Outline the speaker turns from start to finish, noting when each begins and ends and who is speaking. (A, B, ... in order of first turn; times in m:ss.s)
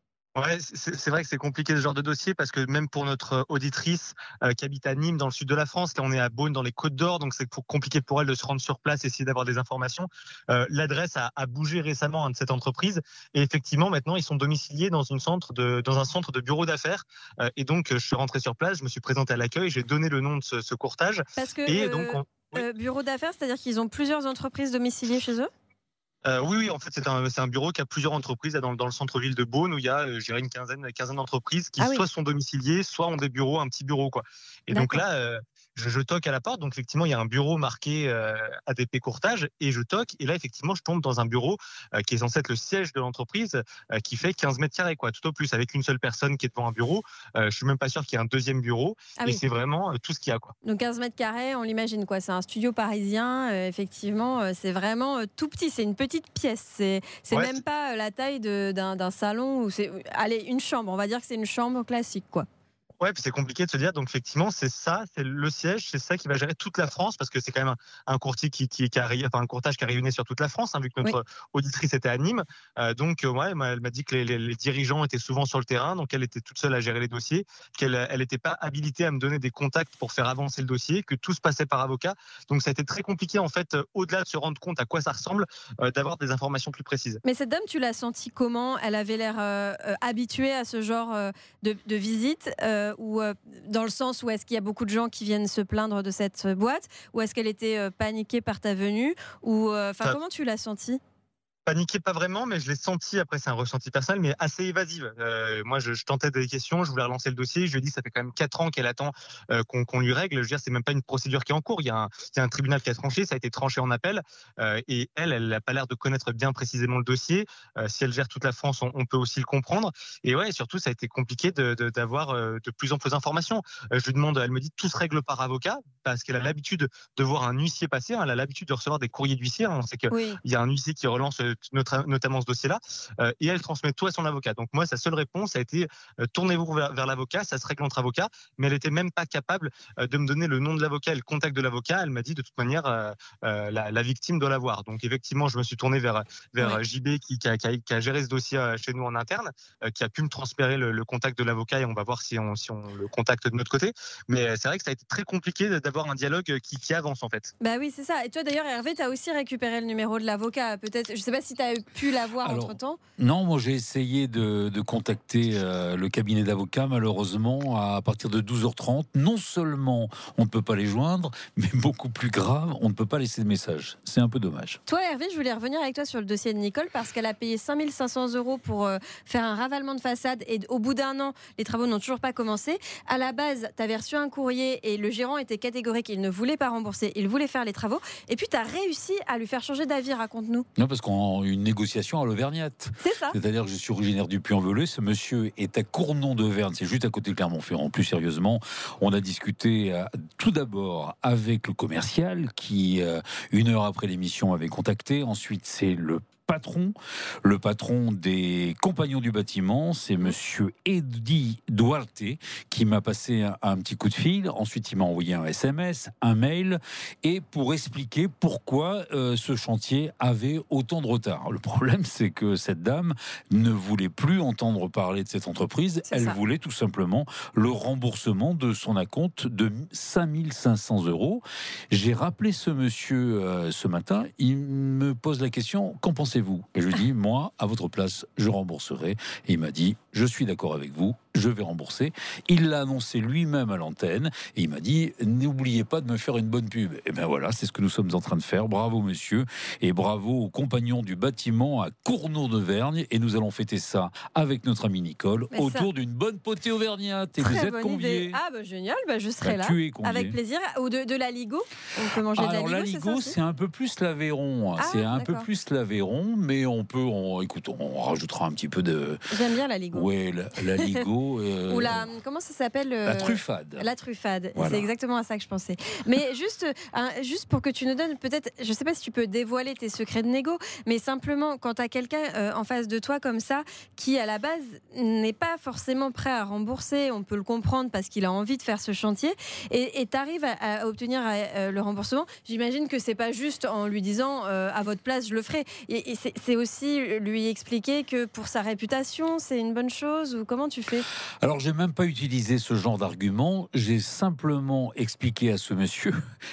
0:00.3-0:22.6 A
0:21.4-0:25.5 B
0:26.2-0:50.5 A
0:34.7-0:35.0 B
0:49.2-0:49.4 B
0:50.6-1:02.4 B
0:57.3-0:57.6 A
1:03.0-1:27.2 A
1:27.2-1:41.0 B
1:41.6-2:37.5 A
2:10.1-2:10.4 B
2:37.6-2:43.0 B
2:42.4-2:54.8 C
2:54.8-3:10.6 B
3:10.8-4:18.4 C
3:13.0-3:13.4 B
3:46.1-3:46.4 B
4:15.5-4:15.9 B
4:17.4-4:23.4 B
4:19.4-4:20.4 C
4:22.3-4:29.2 C
4:24.8-4:25.5 B
4:29.3-4:30.1 B
4:29.9-4:32.1 C
4:30.8-4:31.0 B
4:31.7-5:01.0 B
4:33.0-4:33.8 C
4:34.5-4:34.9 C
5:01.4-5:06.1 C